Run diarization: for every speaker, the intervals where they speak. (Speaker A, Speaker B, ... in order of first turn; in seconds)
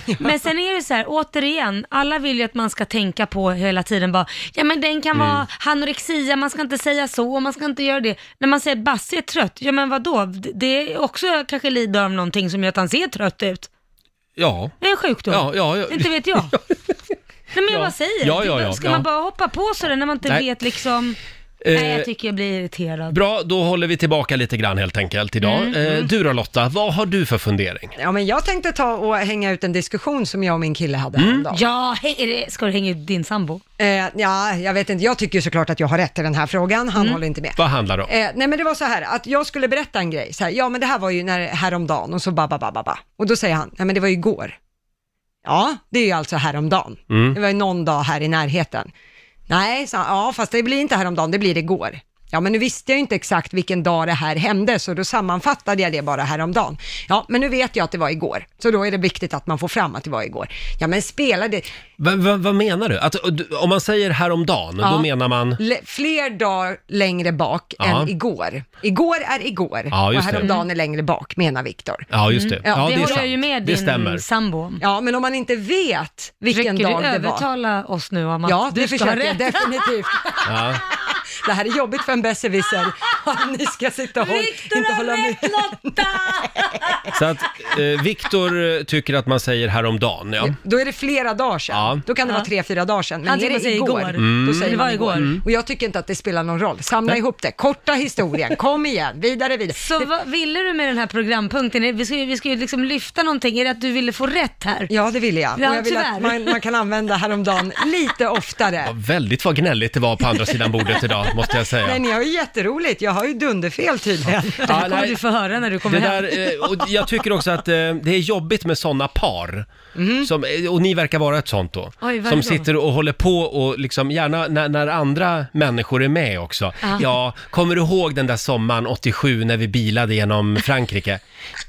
Speaker A: 0.2-13.7, 14.8-16.5, 17.5-21.2, 21.7-23.2, 25.4-25.8, 31.5-33.6, 70.4-70.7, 72.3-74.8, 76.5-79.9, 84.2-86.7, 93.2-95.4, 99.8-104.9, 105.5-106.6, 114.6-116.8, 122.0-122.7, 126.8-127.1
Speaker B: 5.1-5.4, 14.4-14.8, 15.3-16.5, 17.7-19.1, 21.6-22.1, 23.1-27.9, 31.1-31.4, 37.6-38.1, 47.1-47.4, 62.0-65.6, 67.8-68.1, 69.9-70.5, 72.1-74.2, 80.4-80.8, 87.1-90.5, 91.7-92.0, 94.2-95.4, 108.8-112.0, 114.6-115.2, 115.8-119.7, 120.2-131.2
Speaker C: 28.0-31.6, 33.8-44.5, 45.4-48.9, 49.5-61.6, 64.8-73.2, 74.8-77.4, 78.4-80.4, 81.4-86.5, 90.4-100.1, 104.9-108.9, 111.8-114.8, 119.9-120.3